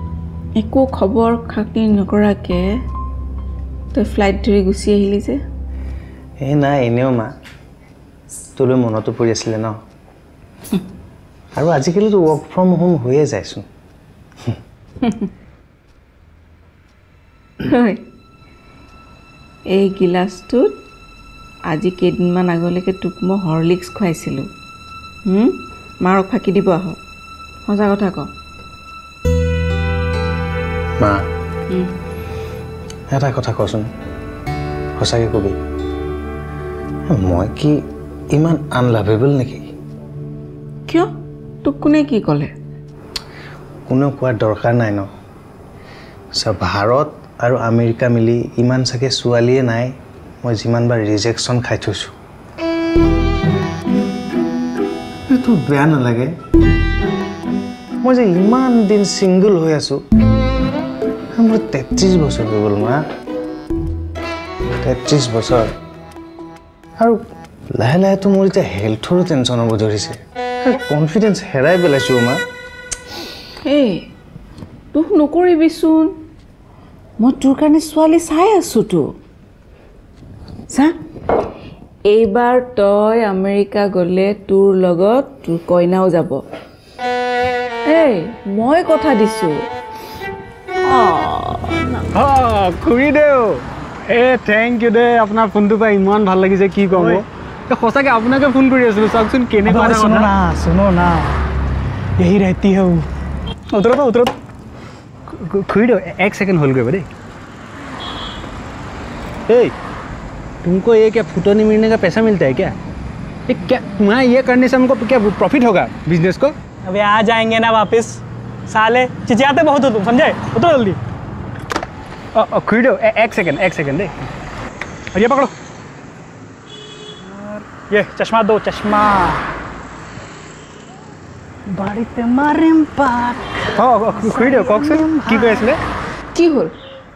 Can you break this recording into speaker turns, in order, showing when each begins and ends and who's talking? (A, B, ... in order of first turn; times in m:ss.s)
0:00.6-0:02.6 A
0:03.9-0:05.4 A
0:06.4-0:07.3 B
0:08.6-0:09.7 B
0:11.6-0:13.6 B
0:17.6-0:18.0 A
0:19.7-0:20.6 A
0:21.7-0:24.4 A
0:26.0-0:27.0 A
0:27.7-0:28.3 A
0:33.1-0:33.9 B
0:35.0-0:35.6 B
0:37.1-0:37.7 B
0:38.3-0:39.7 B
0:41.6-0:42.5 A
0:43.9-0:45.1 B
0:46.4-0:52.1 B
0:55.3-0:56.3 B
0:58.0-1:00.0 B
1:01.4-1:03.0 B
1:04.8-1:05.7 B
1:07.8-1:12.4 B
1:14.9-1:16.1 A
1:17.2-1:19.0 A
1:22.1-1:26.4 A
1:27.9-1:29.5 A
1:30.8-1:32.0 A
1:32.1-1:40.3 C
1:37.0-1:37.2 D
1:39.6-1:41.4 D
1:42.2-1:43.0 D
1:43.7-1:44.3 D
1:45.3-1:47.1 C
1:50.6-1:52.7 C
1:53.5-1:56.5 C
1:56.9-2:01.0 D
2:02.3-2:04.2 C
2:05.1-2:05.5 D
2:07.2-2:09.4 D
2:11.7-2:15.7 D
2:13.8-2:15.8 C
2:16.3-2:16.7 A